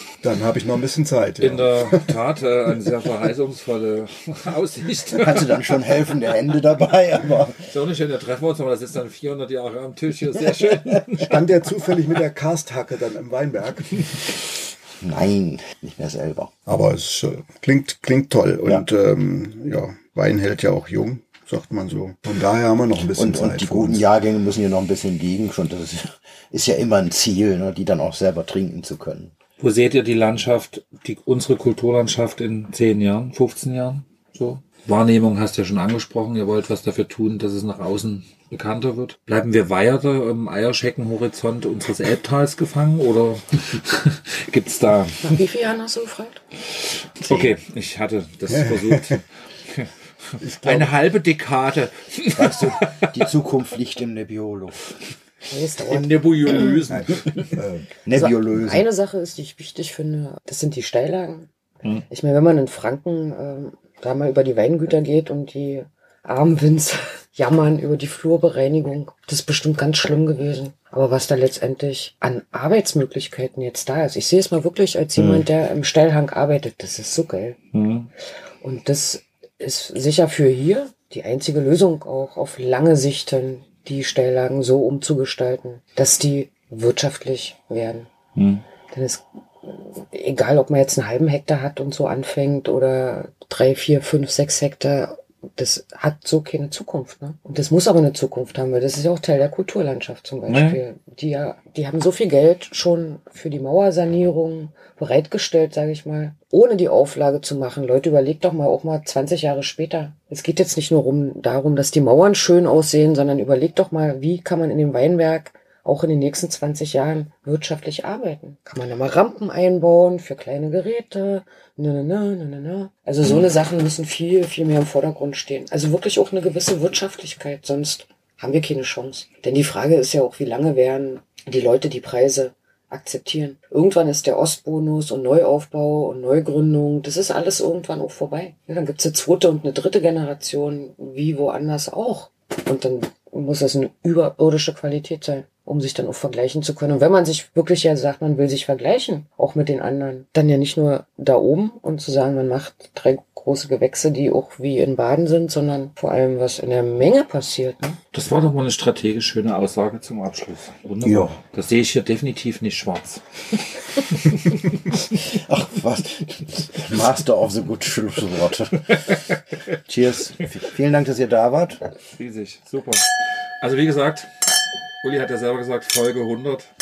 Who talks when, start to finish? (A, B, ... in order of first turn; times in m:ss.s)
0:00.2-0:02.1 A
0:01.4-0:05.9 B
0:05.1-0:07.7 C
0:07.6-0:11.3 B
0:11.2-0:14.2 A
0:15.0-0:16.5 C
0:16.6-0:24.0 A
0:23.1-0:29.3 C
0:29.6-0:45.3 B
0:45.2-0:46.4 D
0:47.2-0:53.2 B
0:47.2-0:47.5 C
0:48.5-0:49.2 A
0:50.4-0:50.9 A
0:52.3-0:54.8 C
0:55.5-0:56.8 D
0:55.8-0:57.6 B
0:56.9-0:57.9 A
0:58.0-0:58.8 C
0:58.1-1:01.5 D
1:02.1-1:17.6 D
1:15.2-1:15.5 C
1:17.7-1:18.1 B
1:18.6-1:28.1 D
1:28.3-1:28.6 B
1:28.9-2:38.0 D
1:40.5-1:40.8 B
2:38.1-2:45.0 B
2:41.0-2:41.4 C
2:45.1-2:48.9 C
2:49.9-2:51.8 C
2:52.1-2:54.4 B
2:55.0-2:56.7 B